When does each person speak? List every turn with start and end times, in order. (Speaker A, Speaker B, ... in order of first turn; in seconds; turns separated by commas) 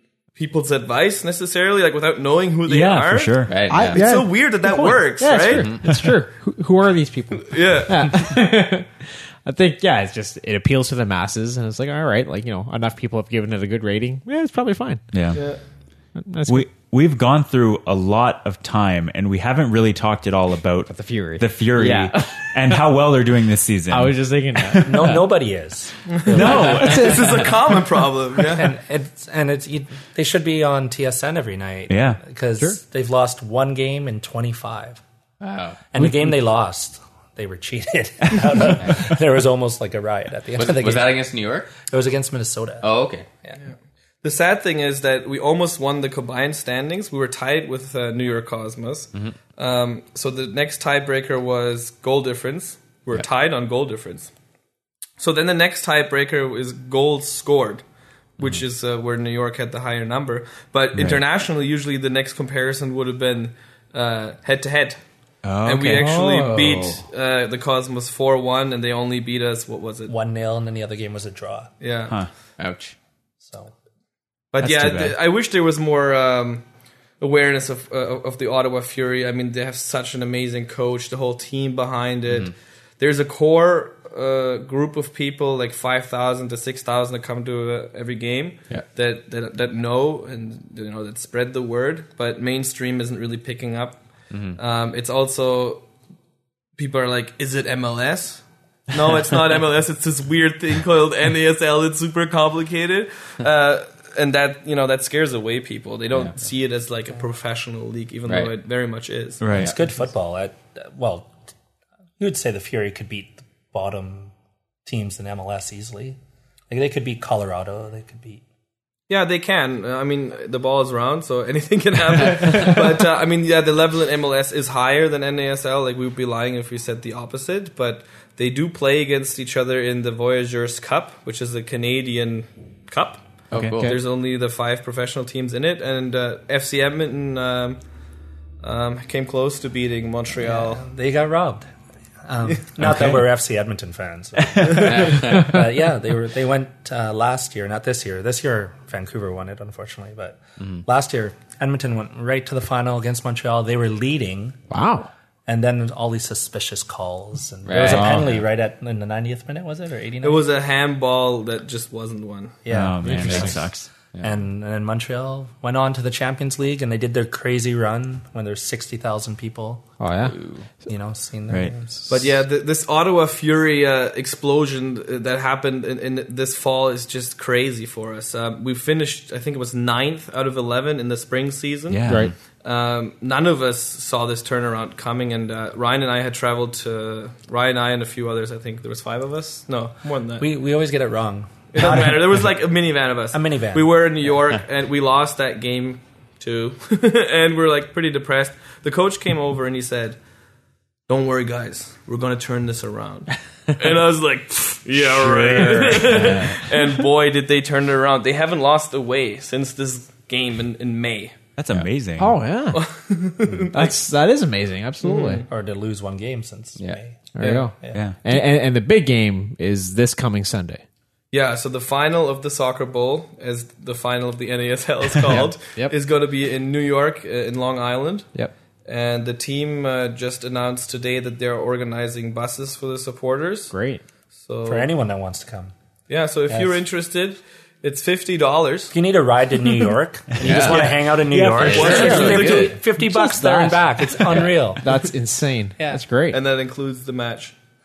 Speaker A: 0.3-5.8, Speaker B: 2.6-3.7, Speaker C: 3.5-4.1, Speaker D: 3.7-15.0, Speaker C: 5.5-5.8, Speaker A: 7.4-8.3, Speaker B: 15.1-15.4, Speaker A: 15.3-15.6, Speaker D: 16.1-16.7, Speaker B: 16.4-25.2, Speaker D: 20.9-22.6, Speaker D: 23.9-25.2, Speaker E: 24.8-27.0, Speaker A: 26.1-28.7, Speaker B: 26.3-27.3, Speaker D: 26.4-27.4, Speaker E: 28.5-35.0, Speaker B: 31.9-32.2, Speaker C: 35.4-35.8, Speaker E: 35.9-42.9, Speaker D: 36.0-36.3, Speaker C: 40.6-41.7, Speaker C: 42.8-43.3, Speaker A: 44.2-54.3, Speaker A: 55.2-57.8, Speaker A: 58.4-65.0, Speaker B: 61.0-61.2, Speaker B: 65.4-66.0, Speaker A: 65.6-70.1, Speaker D: 65.9-67.0, Speaker E: 70.1-71.7, Speaker A: 71.8-72.2, Speaker C: 72.6-72.9, Speaker E: 73.4-73.7, Speaker A: 74.5-76.6, Speaker B: 74.6-75.2, Speaker A: 77.2-94.0, Speaker C: 82.3-82.5, Speaker C: 94.3-94.6, Speaker A: 94.5-95.8, Speaker A: 96.8-109.4, Speaker C: 108.3-108.5, Speaker B: 109.4-109.7, Speaker E: 109.5-111.4, Speaker E: 112.2-114.3, Speaker E: 114.8-116.2, Speaker E: 116.7-118.4, Speaker A: 119.1-133.3, Speaker C: 133.5-134.0, Speaker B: 133.5-133.8, Speaker A: 133.8-137.8, Speaker A: 138.6-140.8, Speaker E: 140.4-141.7, Speaker E: 142.2-154.6, Speaker B: 142.9-143.1, Speaker B: 144.6-144.9, Speaker C: 144.8-145.6, Speaker D: 154.7-155.1, Speaker E: 155.4-160.4, Speaker C: 157.7-158.4, Speaker D: 157.8-158.2, Speaker A: 160.2-162.6, Speaker E: 162.6-163.6, Speaker B: 162.7-163.9, Speaker D: 163.0-163.6, Speaker E: 164.2-170.0, Speaker D: 170.0-170.3, Speaker C: 170.2-170.7, Speaker E: 170.8-172.1, Speaker B: 171.5-171.7, Speaker A: 172.1-182.1, Speaker B: 181.9-182.3, Speaker D: 182.1-182.3, Speaker A: 182.6-190.5, Speaker E: 190.4-192.4, Speaker A: 191.7-200.2, Speaker E: 193.3-193.9, Speaker A: 201.1-211.4, Speaker B: 205.0-206.6, Speaker B: 211.6-212.3, Speaker D: 212.2-212.8, Speaker A: 212.7-213.9, Speaker D: 213.6-215.4, Speaker A: 215.0-215.4, Speaker E: 215.5-217.3, Speaker D: 217.3-220.8, Speaker A: 217.4-217.7, Speaker B: 217.9-218.2, Speaker A: 221.3-228.3, Speaker A: 228.8-233.7, Speaker D: 233.7-234.0, Speaker A: 234.4-234.9, Speaker E: 234.6-235.7, Speaker A: 236.1-238.9, Speaker E: 236.5-236.8, Speaker E: 238.9-244.9, Speaker B: 240.4-242.4, Speaker C: 240.4-242.7, Speaker A: 241.6-242.7, Speaker D: 241.8-246.4, Speaker A: 246.3-247.5